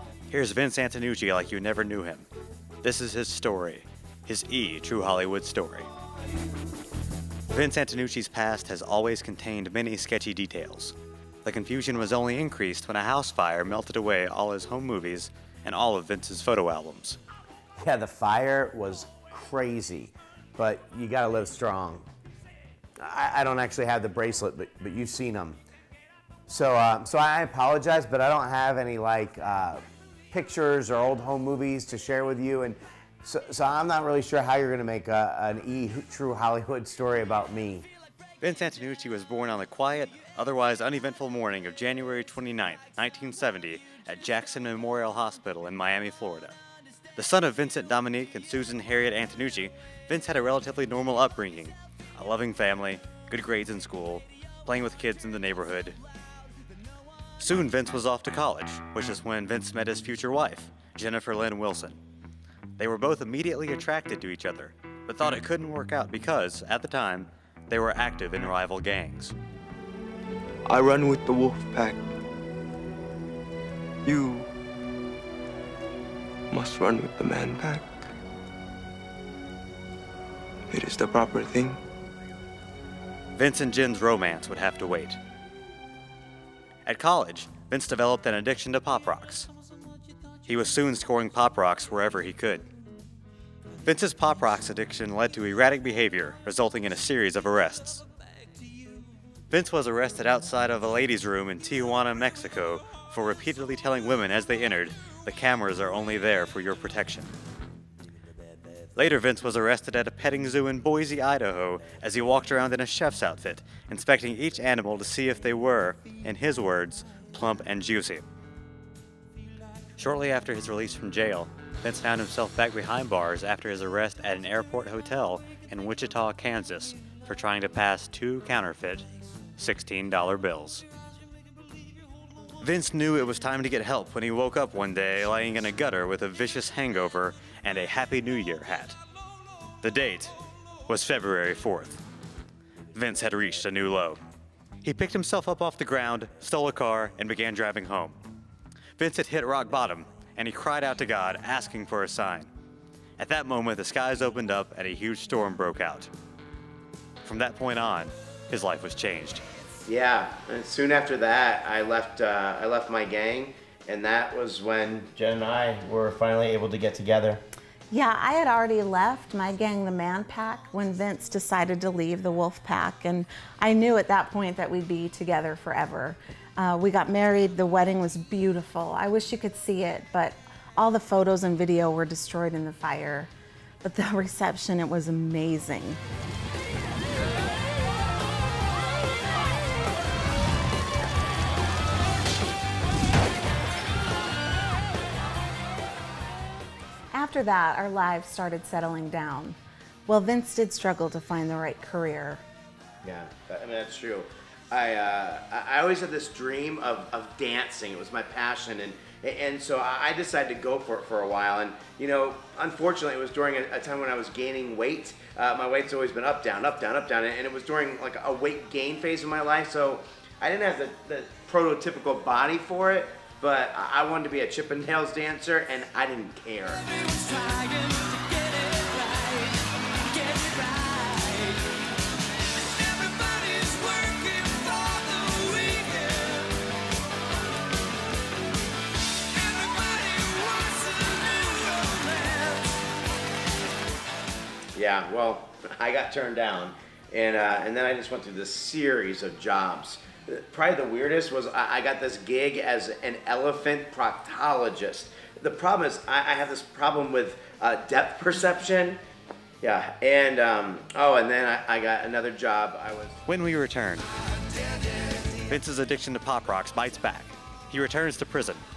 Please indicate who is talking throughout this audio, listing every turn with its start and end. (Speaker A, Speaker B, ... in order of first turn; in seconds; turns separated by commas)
Speaker A: 0.3-2.3, Speaker A: 2.8-5.9, Speaker A: 7.5-17.2, Speaker B: 17.8-22.1, Speaker B: 23.0-25.6, Speaker B: 26.5-37.9, Speaker A: 38.4-46.6, Speaker A: 47.2-56.0, Speaker A: 57.4-62.0, Speaker A: 62.8-69.3, Speaker C: 70.7-72.0, Speaker C: 74.0-74.5, Speaker C: 76.5-77.9, Speaker C: 80.7-81.8, Speaker A: 83.4-85.2, Speaker A: 86.9-89.5, Speaker A: 90.5-92.7, Speaker A: 93.8-98.0, Speaker A: 99.5-107.3, Speaker A: 109.0-118.3, Speaker A: 120.0-130.8, Speaker A: 132.6-139.0, Speaker A: 139.8-140.4, Speaker A: 140.9-142.0, Speaker A: 142.9-144.2, Speaker A: 144.8-148.2, Speaker A: 149.0-152.5, Speaker A: 153.2-156.1, Speaker A: 157.2-159.4, Speaker B: 159.9-167.4, Speaker D: 167.9-183.3, Speaker D: 183.8-186.0, Speaker D: 197.1-202.4, Speaker B: 203.0-226.9, Speaker C: 227.1-229.6, Speaker C: 230.1-231.6, Speaker C: 232.7-236.5, Speaker C: 239.3-242.7, Speaker B: 244.7-259.0, Speaker B: 259.6-263.2, Speaker A: 263.3-264.1, Speaker A: 265.5-268.6